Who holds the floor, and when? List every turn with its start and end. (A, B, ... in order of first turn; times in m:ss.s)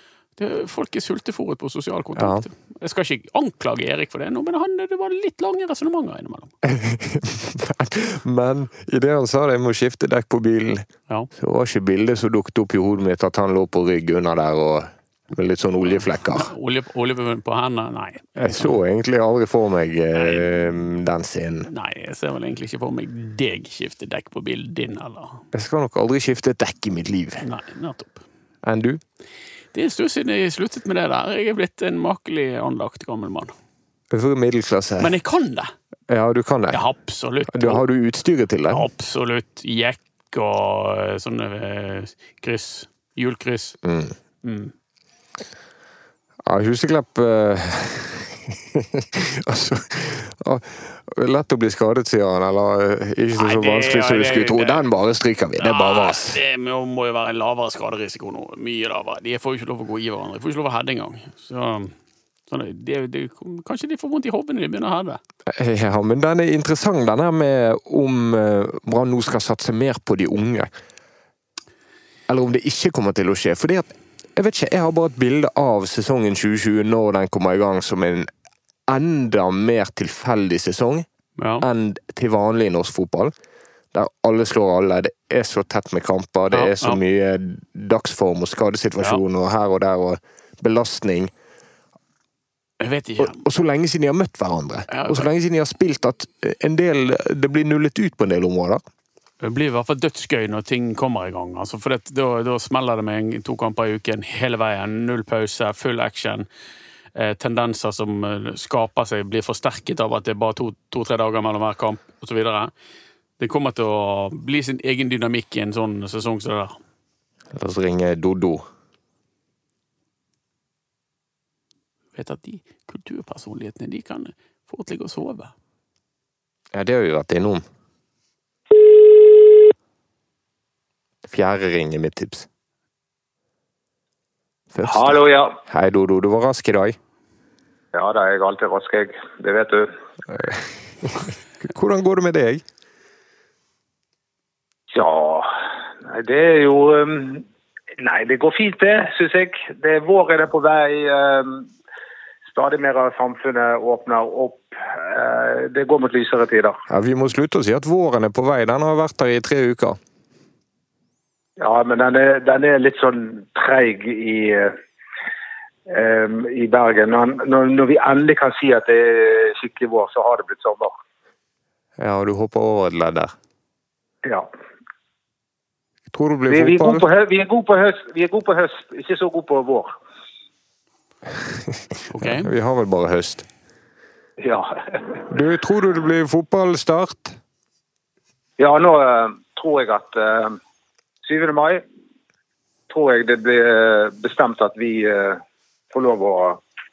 0:00.4-0:06.5 A
0:02.2-0:02.4 B
0:06.6-0:16.5 B
0:15.9-0:18.8 A
0:18.4-0:21.7 B
0:20.1-0:20.6 A
0:21.7-0:25.4 A
0:25.5-0:27.4 B
0:27.4-0:28.2 A
0:28.6-0:29.0 B
0:29.7-0:33.5 A
0:34.1-0:35.1 B
0:35.0-0:35.7 A
0:36.1-0:36.8 B
0:36.7-0:37.8 A
0:37.5-0:38.8 B
0:38.7-0:43.8 A
0:43.8-0:44.1 B
0:44.4-0:44.7 A
0:46.4-0:56.4 B
0:53.3-0:54.8 A
0:55.6-1:01.9 A
1:02.5-1:05.2 A
1:05.5-1:10.7 B
1:12.3-1:18.3 B
1:18.9-1:21.0 B
1:21.4-1:21.6 A
1:21.6-1:23.3 B
1:23.9-1:31.3 B
1:26.5-1:27.0 A
1:32.8-1:33.4 A
1:33.2-1:38.8 B
1:34.9-1:35.3 A
1:39.4-1:46.4 A
1:47.1-1:52.7 A
1:53.4-1:56.7 A
1:57.5-1:58.6 B
2:02.1-2:05.5 A
2:06.7-2:07.6 B
2:11.3-2:12.5 B
2:14.7-2:17.0 B
2:14.8-2:15.6 C
2:17.9-2:19.9 C
2:20.3-2:22.6 B
2:24.9-2:25.5 C
2:26.0-2:27.4 C
2:28.0-2:31.7 C
2:32.5-2:36.8 C
2:36.9-2:40.0 B
2:41.6-2:44.8 C
2:45.9-2:50.9 C
2:52.0-2:53.3 B
2:56.1-2:57.0 B
2:56.5-2:59.9 C
3:01.7-3:03.4 B
3:02.1-3:02.5 A
3:04.4-3:05.2 C
3:05.3-3:07.4 B
3:08.6-3:10.6 C
3:11.2-3:11.8 C
3:12.9-3:15.4 C
3:15.9-3:16.6 C